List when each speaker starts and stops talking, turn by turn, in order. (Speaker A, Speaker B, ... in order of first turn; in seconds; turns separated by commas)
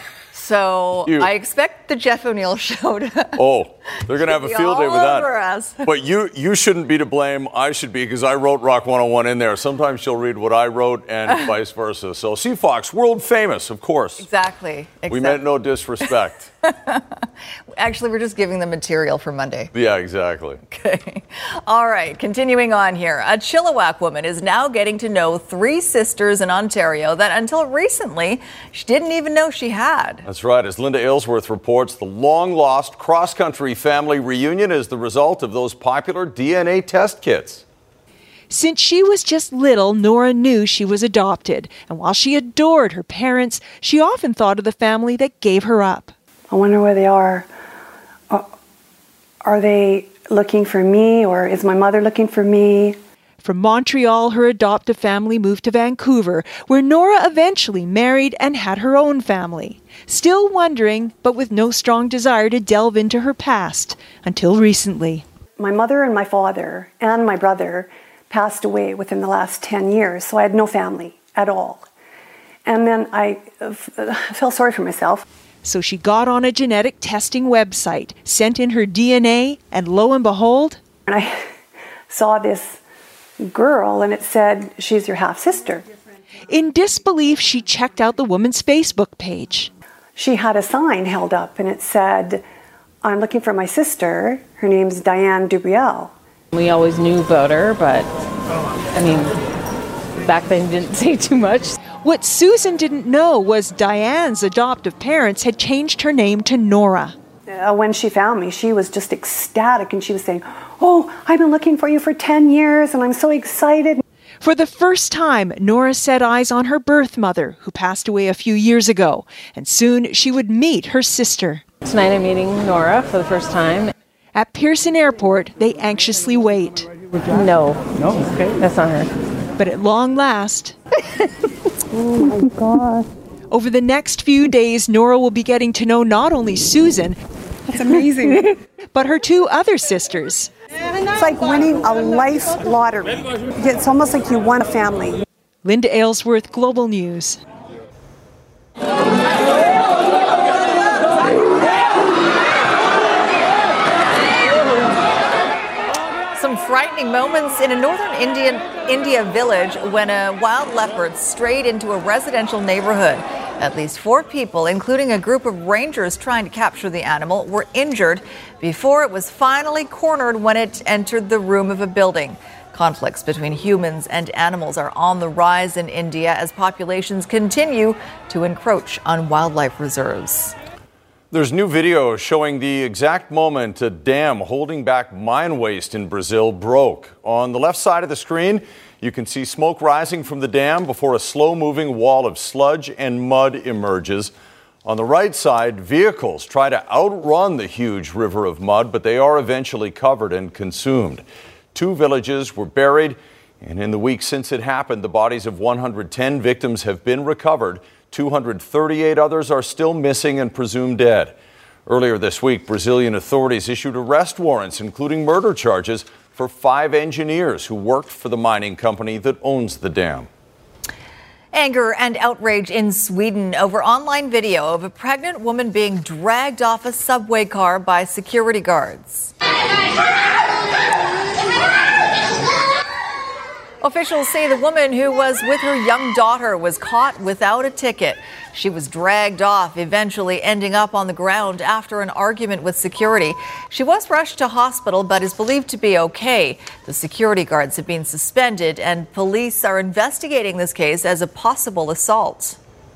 Speaker A: 0.3-3.3, Speaker B: 3.4-5.3, Speaker A: 4.2-5.8, Speaker B: 5.8-14.2, Speaker A: 14.2-15.4, Speaker B: 15.1-16.5, Speaker A: 16.7-17.0, Speaker A: 17.8-19.7, Speaker B: 19.7-20.6, Speaker A: 20.7-30.2, Speaker B: 30.3-37.6, Speaker C: 38.5-46.1, Speaker D: 46.5-47.5, Speaker D: 49.4-53.0, Speaker C: 53.4-65.2, Speaker D: 65.6-71.9, Speaker D: 72.6-75.2, Speaker C: 75.6-80.8, Speaker D: 81.1-81.4, Speaker D: 82.1-82.8, Speaker D: 83.4-85.9, Speaker C: 86.5-89.7, Speaker D: 90.2-92.4, Speaker D: 93.0-96.1, Speaker E: 96.5-98.1, Speaker E: 98.9-99.3, Speaker E: 100.2-101.8, Speaker C: 101.9-107.1, Speaker D: 107.5-114.0, Speaker C: 114.4-121.6, Speaker E: 121.8-123.9, Speaker C: 124.3-126.9, Speaker E: 127.3-129.1, Speaker C: 129.6-130.8, Speaker C: 133.5-137.2, Speaker C: 137.8-138.1, Speaker D: 137.8-138.3, Speaker C: 138.9-140.5, Speaker D: 141.1-145.2, Speaker C: 145.6-147.4, Speaker A: 156.4-180.6, Speaker B: 181.3-194.3, Speaker B: 194.8-201.2, Speaker B: 201.7-211.3, Speaker B: 211.9-220.3, Speaker A: 221.5-229.3, Speaker A: 233.8-252.6